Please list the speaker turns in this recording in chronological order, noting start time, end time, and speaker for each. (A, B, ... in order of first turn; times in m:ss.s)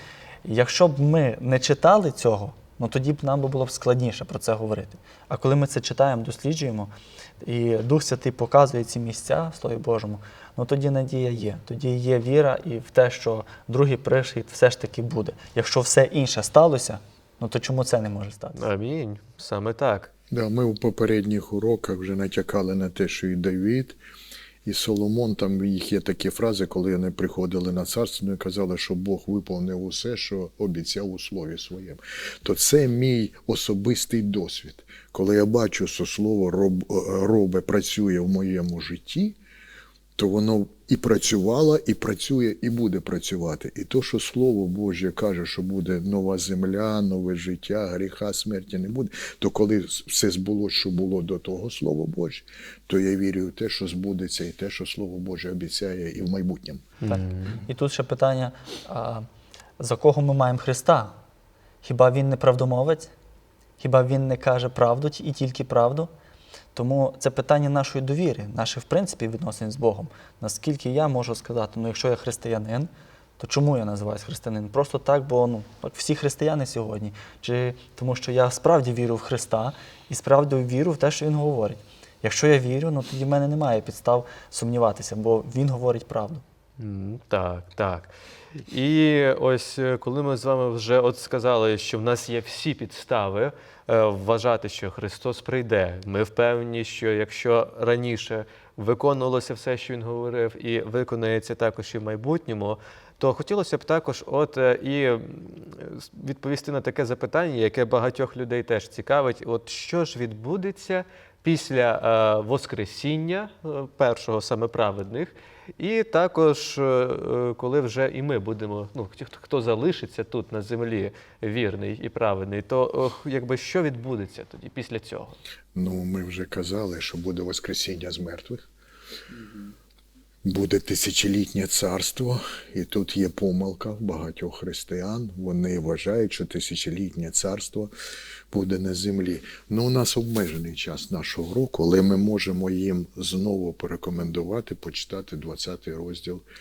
0:00.4-0:06.9 A
0:07.4-0:18.7 A
0:18.6-0:20.1 B
0:20.3-0:24.0 C
0:24.6-0:39.4 C
0:40.2-0:56.8 C
0:57.0-0:57.6 B
0:57.1-0:59.3 A
0:59.8-1:01.1 A
1:01.8-1:03.1 A
1:03.8-1:06.1 A
1:06.7-1:26.4 A
1:26.8-1:28.1 B
1:28.7-2:05.4 B
2:05.7-2:08.6 C
2:10.4-2:17.9 C
2:18.5-2:26.4 C